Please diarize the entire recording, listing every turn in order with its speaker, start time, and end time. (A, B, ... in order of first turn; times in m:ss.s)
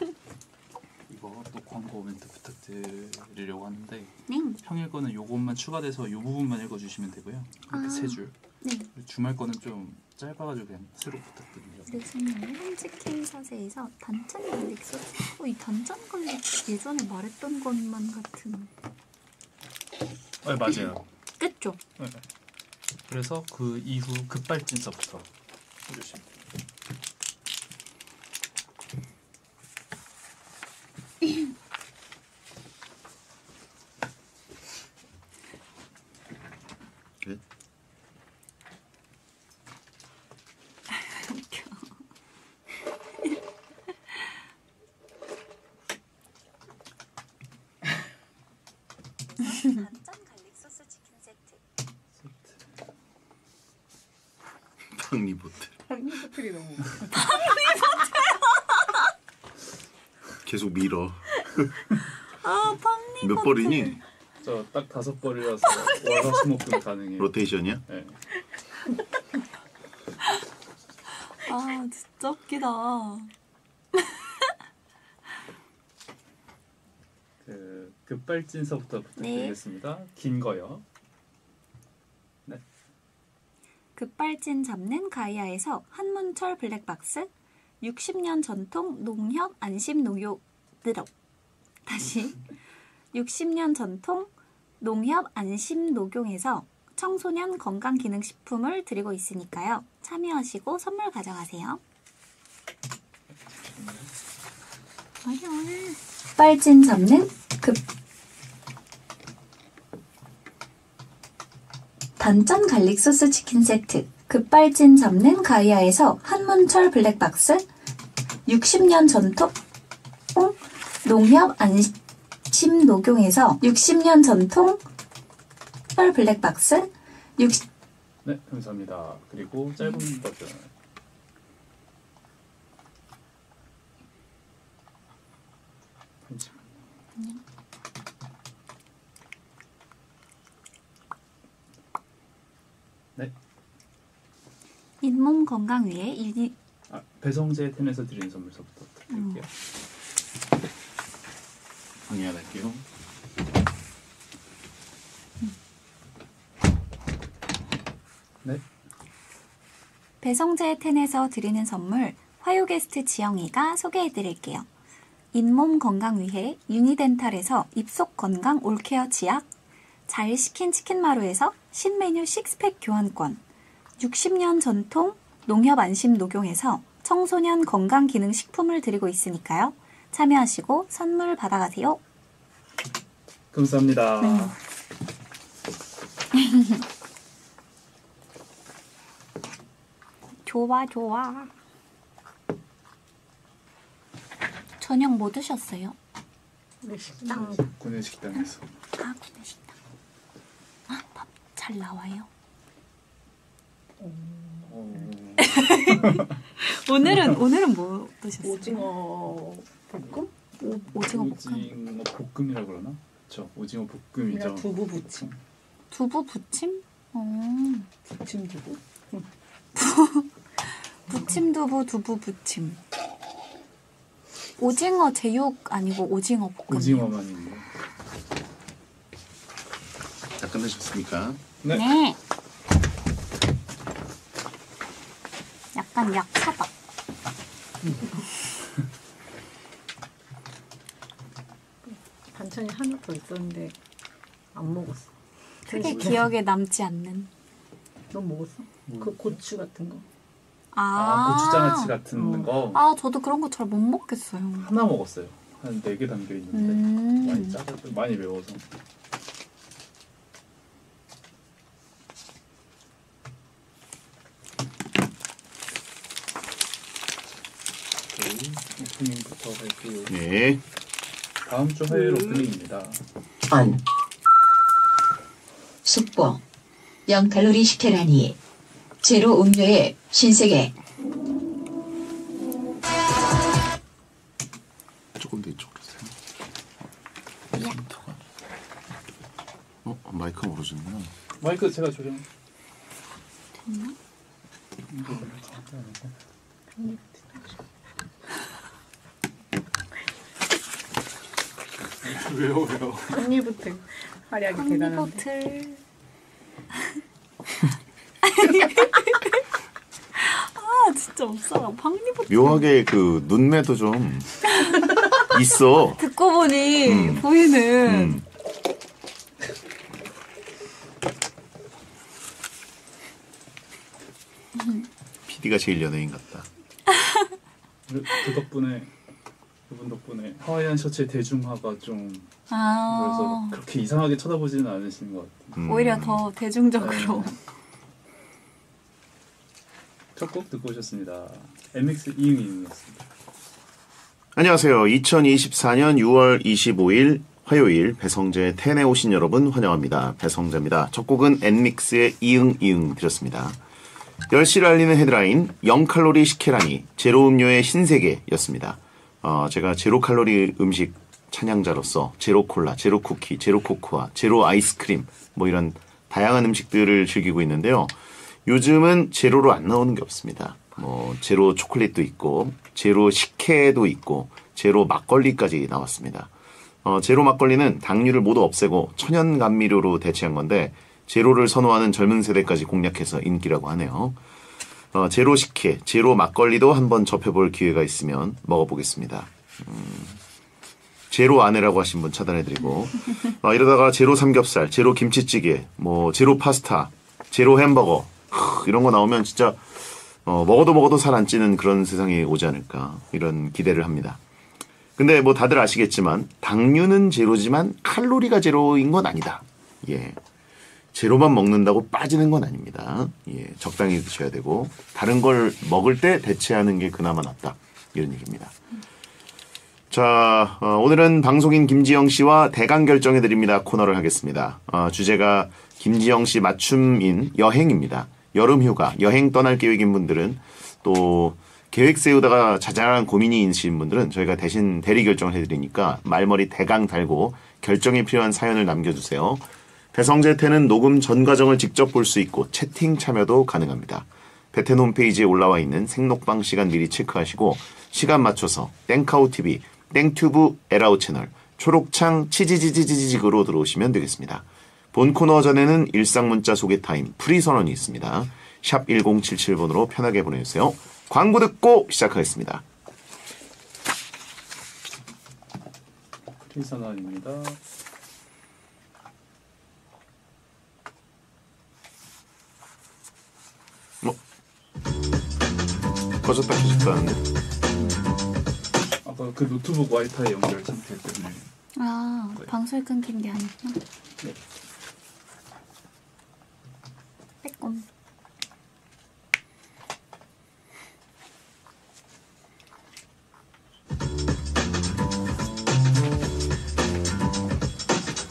0:01.1-0:08.3 A
0:04.3-0:04.6 B
0:07.7-0:08.9 B
0:08.9-0:11.9 A
0:11.9-0:18.7 B
0:20.4-0:21.0 A
0:21.4-0:21.8 B
0:23.1-0:25.2 A
0:25.9-0:26.2 A
0:40.9-0:41.8 B
0:49.4-0:51.4 B
0:52.2-0:52.7 A
0:54.9-0:55.7 C
0:55.9-0:57.4 D
0:57.1-0:58.4 B
1:00.4-1:01.5 C
1:02.4-1:04.0 B
1:03.2-1:04.0 C
1:04.4-1:08.2 A
1:07.2-1:07.8 C
1:11.4-1:13.3 B
1:17.4-1:20.8 A
1:19.2-1:19.6 B
1:24.0-1:27.3 B
1:27.8-1:31.1 B
1:31.8-1:32.4 B
1:33.1-1:34.3 B
1:34.8-1:41.8 B
1:43.8-1:44.0 A
1:45.2-1:47.8 B
1:52.2-1:57.6 B
1:58.4-1:59.5 B
2:00.3-2:01.9 B
2:02.5-2:04.8 B
2:05.9-2:07.6 B
2:08.2-2:10.7 A
2:16.2-2:16.7 A
2:25.0-2:26.5 B
2:26.9-2:29.5 A
2:29.1-2:29.4 B
2:32.1-2:32.8 C
2:40.2-2:44.6 B
2:45.3-2:49.5 B
2:50.1-2:53.4 B
2:54.0-3:02.0 B
3:03.5-3:04.6 A
3:04.2-3:04.5 B
3:06.4-3:06.8 B
3:10.4-3:11.5 B
3:14.8-3:16.0 B
3:16.8-3:17.6 D
3:17.3-3:18.7 A
3:19.0-3:19.7 B
3:20.9-3:22.3 B
3:24.0-3:25.1 D
3:24.7-3:26.3 A
3:25.4-3:28.9 B
3:28.4-3:30.3 D
3:30.6-3:31.7 B
3:30.9-3:35.4 A
3:34.3-3:35.3 D
3:35.9-3:37.9 B
3:38.1-3:39.2 D
3:39.8-3:40.3 B
3:41.1-3:42.8 B
3:44.6-3:47.1 B
3:46.7-3:47.6 A
3:50.4-3:51.4 C
3:51.7-3:52.2 B
3:55.7-3:56.7 B
4:01.8-4:03.7 D
4:04.5-4:05.1 D
4:05.6-4:06.2 D
4:05.7-4:07.3 B
4:05.8-4:06.2 A
4:08.1-4:10.0 D
4:08.9-4:09.4 A
4:10.7-4:14.7 B
4:10.9-4:12.8 A
4:14.6-4:18.6 A
4:16.5-4:17.6 B
4:28.1-4:30.1 A
4:30.1-4:30.6 C
4:31.4-4:33.0 A
4:33.5-4:33.8 E
4:35.8-4:36.4 E
4:37.1-4:38.4 E
4:39.0-4:40.7 E
4:45.2-4:46.1 C
4:47.5-4:48.2 C
4:49.8-4:51.1 C
4:51.4-4:52.2 A
4:53.6-4:54.0 B
4:54.9-4:56.0 A
5:02.0-5:03.2 A
5:03.1-5:05.2 D
5:04.5-5:05.8 B
5:08.2-5:09.4 B
5:10.2-5:12.6 B
5:12.3-5:14.6 C
5:15.1-5:16.0 C
5:16.0-5:18.2 B
5:16.8-5:17.3 C
5:17.8-5:18.2 C
5:24.6-5:24.9 B
5:25.3-5:26.5 C
5:27.0-5:27.2 B
5:27.9-5:28.9 A
5:29.7-5:32.3 A
5:32.5-5:33.6 B
5:32.9-5:35.6 A
5:35.5-5:36.2 C
5:35.6-5:37.3 B
5:36.8-5:37.3 A
5:40.1-5:43.0 A
5:44.4-5:53.6 C
5:54.3-6:07.9 C
6:08.4-6:16.3 C
6:16.8-6:24.2 C
6:24.9-6:30.2 C
6:31.1-6:44.2 C
6:45.0-6:50.2 C
6:50.9-6:58.5 C
6:59.9-7:42.6 C
7:46.4-7:47.6 A
7:56.2-7:57.2 C
7:59.0-8:01.4 A
8:01.8-8:03.8 B
8:07.4-8:07.8 B